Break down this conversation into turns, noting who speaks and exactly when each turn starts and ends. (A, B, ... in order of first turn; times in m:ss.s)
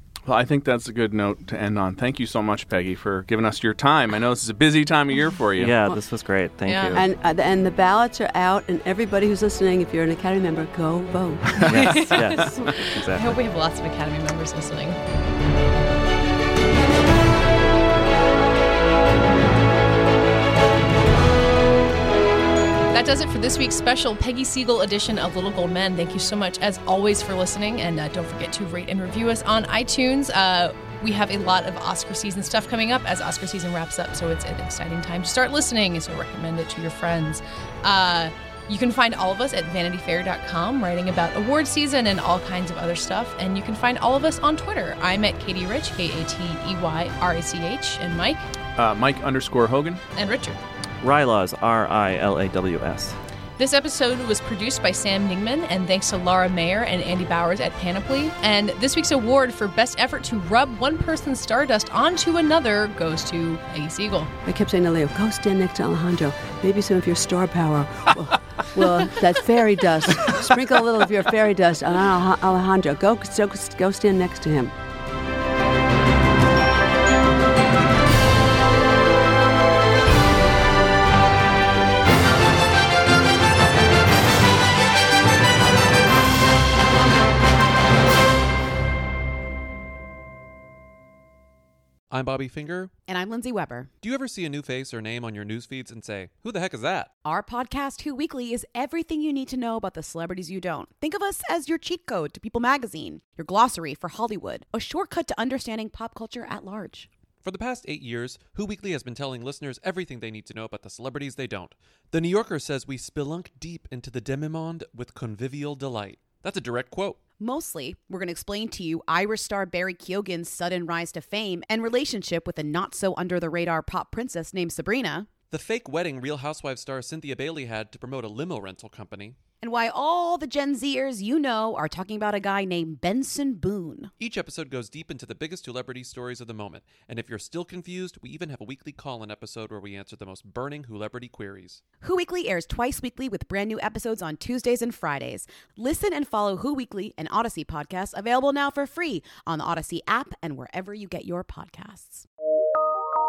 0:00.3-0:05.8 A
0:05.6-0:07.0 B
0:06.7-0:07.0 C
0:06.9-0:12.0 D
0:11.7-0:13.4 B
0:11.7-0:15.0 C
0:22.9-0:48.5 C
0:48.8-0:50.0 A
0:50.2-0:50.6 C
0:51.0-0:53.2 B
0:53.6-1:04.3 C
1:04.5-1:14.7 D
1:32.1-1:32.9 E
1:33.1-1:33.9 F
1:34.0-1:37.1 E
1:37.2-1:47.1 F
1:47.4-1:57.2 E
1:57.4-2:05.4 F
2:05.5-2:09.4 E
2:09.6-2:14.1 F
2:14.2-2:21.8 E
2:22.0-2:32.3 F